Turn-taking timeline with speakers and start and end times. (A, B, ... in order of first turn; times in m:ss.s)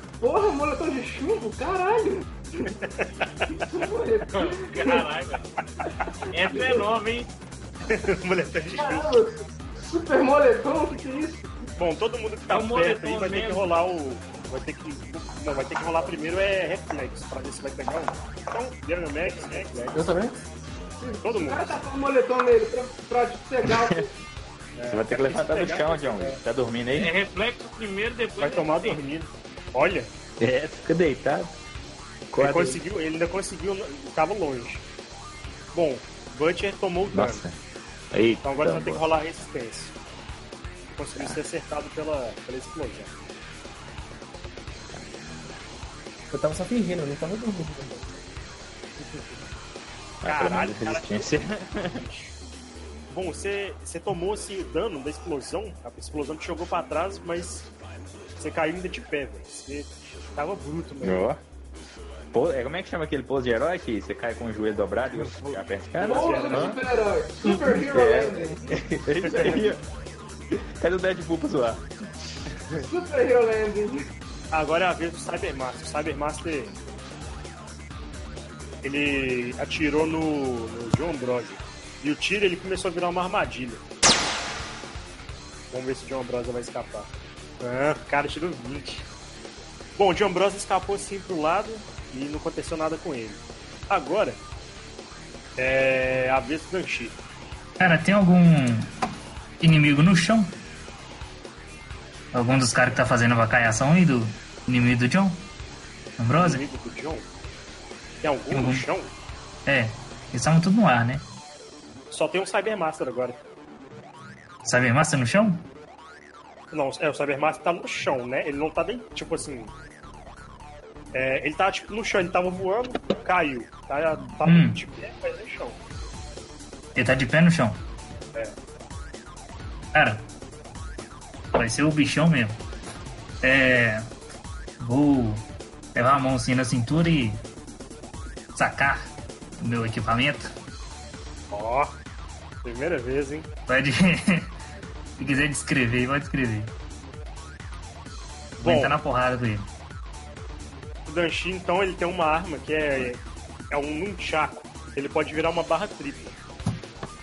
0:00.2-0:02.8 A
0:02.7-0:03.3 B
0:03.5-0:05.1 A
0:04.3-0:05.5 C
0:06.0-0:06.8 A
0:06.3-0:07.3 C
0:07.9-0:09.2 B
0:08.7-0:11.5 A
0:11.8-0:20.1 B
0:12.5-0:13.7 C
0:19.9-0:20.4 D
0:21.0-0:24.1 A
0:21.2-0:21.8 B
0:23.6-0:24.1 E
0:24.8-0:26.4 B
0:24.9-0:27.1 E
0:26.9-0:29.0 C
0:28.4-0:30.1 B
0:30.4-0:31.5 E
0:32.3-0:32.8 E
0:32.3-0:34.8 B
0:35.7-0:37.4 B
0:37.1-0:37.6 E
0:38.1-0:39.1 E
0:38.4-0:40.0 B
0:41.0-0:43.1 B
0:44.9-0:45.6 E
0:46.3-0:48.2 D
0:49.0-0:49.4 B
0:50.2-0:52.0 E
0:50.3-0:52.4 B
0:53.1-0:57.7 B
0:58.4-1:01.3 B
1:01.0-1:01.4 E
1:02.3-1:06.8 E
1:05.1-1:06.7 B
1:06.0-1:08.6 A
1:07.4-1:09.8 E
1:09.2-1:09.7 B
1:10.5-1:11.9 E
1:12.8-1:14.1 A
1:14.5-1:16.8 B
1:18.8-1:23.8 B
1:25.7-1:27.1 B
1:27.6-1:29.1 B
1:30.0-1:34.4 B
1:35.6-1:37.2 B
1:37.8-1:38.9 F
1:39.6-1:40.5 F
1:42.3-1:45.4 F
1:46.2-1:46.6 F
1:46.4-1:47.3 B
1:48.2-1:49.1 B
1:48.5-1:48.9 F
1:49.7-1:51.2 F
1:52.1-1:53.4 B
1:54.6-1:55.6 F
1:56.7-1:59.7 B
2:01.1-2:05.8 B
2:04.4-2:04.8 F
2:07.0-2:07.8 F
2:09.9-2:10.3 F
2:11.5-2:12.6 F
2:13.4-2:14.1 F
2:14.8-2:17.4 F
2:18.6-2:20.5 F
2:21.5-2:21.9 B
2:22.6-2:23.5 B
2:23.7-2:24.5 F
2:25.2-2:26.7 F
2:28.6-2:29.0 B
2:28.6-2:29.7 F
2:31.1-2:36.4 B